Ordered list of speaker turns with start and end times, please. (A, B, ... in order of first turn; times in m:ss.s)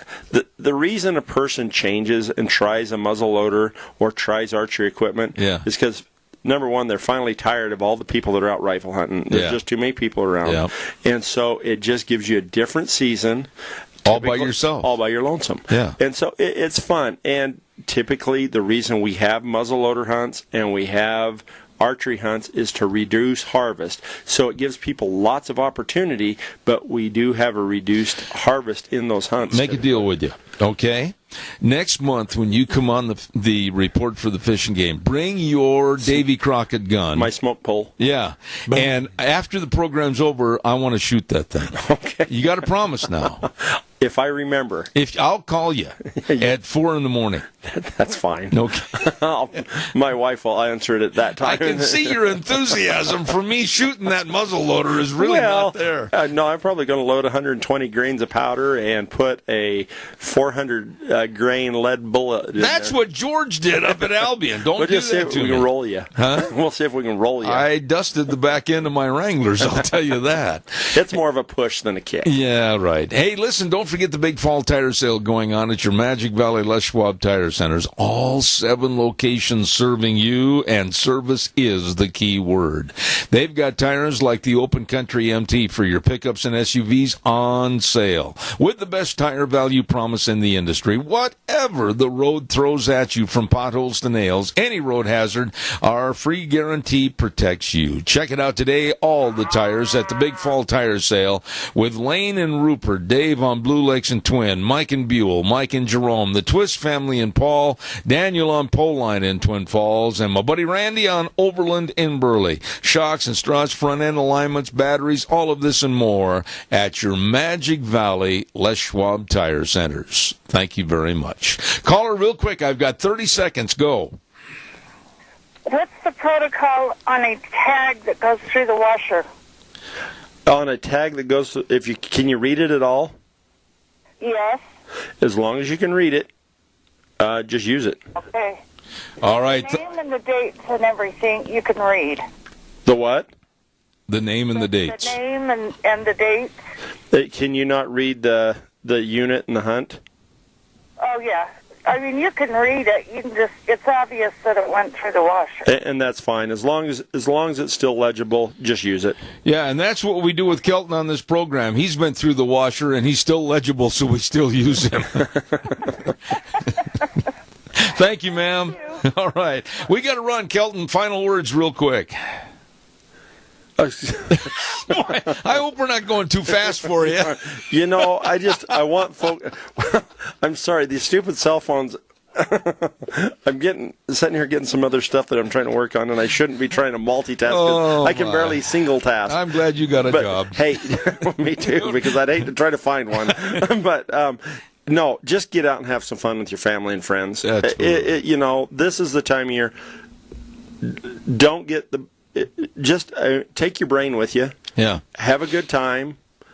0:00.3-0:13.5 A
0:05.4-0:05.6 B
0:09.3-0:09.6 B
0:10.4-0:10.7 B
0:14.0-0:30.1 A
0:14.0-0:14.9 B
0:15.7-0:16.0 B
0:29.4-0:37.3 B
0:37.1-0:37.9 A
0:38.0-0:43.4 B
0:41.8-0:42.3 A
0:44.0-0:44.9 A
0:44.9-0:47.4 B
0:46.2-0:46.5 A
0:47.6-0:52.7 A
0:48.5-0:49.0 B
0:51.4-0:56.1 B
0:55.2-1:03.0 A
1:02.6-1:06.5 B
1:04.7-1:07.7 A
1:07.4-1:11.0 B
1:10.9-1:12.3 A
1:12.2-2:04.2 B
2:05.6-2:09.2 C
2:10.4-2:13.1 A
2:14.2-2:14.6 C
2:15.2-2:16.3 A
2:17.2-2:18.0 A
2:18.3-2:18.6 C
2:19.2-2:19.8 B
2:19.2-2:22.2 C
2:22.8-2:23.3 A
2:24.1-2:25.2 B
2:24.6-2:26.5 C
2:27.1-2:30.0 A
2:31.0-2:35.6 C
2:35.6-2:39.2 A
2:39.4-2:46.0 B
2:47.7-2:52.1 B
2:53.8-2:54.5 A
2:54.3-2:58.0 B
2:57.6-3:09.4 A
3:07.4-3:08.6 B
3:09.2-3:10.6 B
3:10.0-3:19.7 A
3:11.8-3:12.1 B
3:17.4-3:18.1 B
3:20.8-3:24.5 A
3:24.8-3:25.0 B
3:25.2-3:26.2 A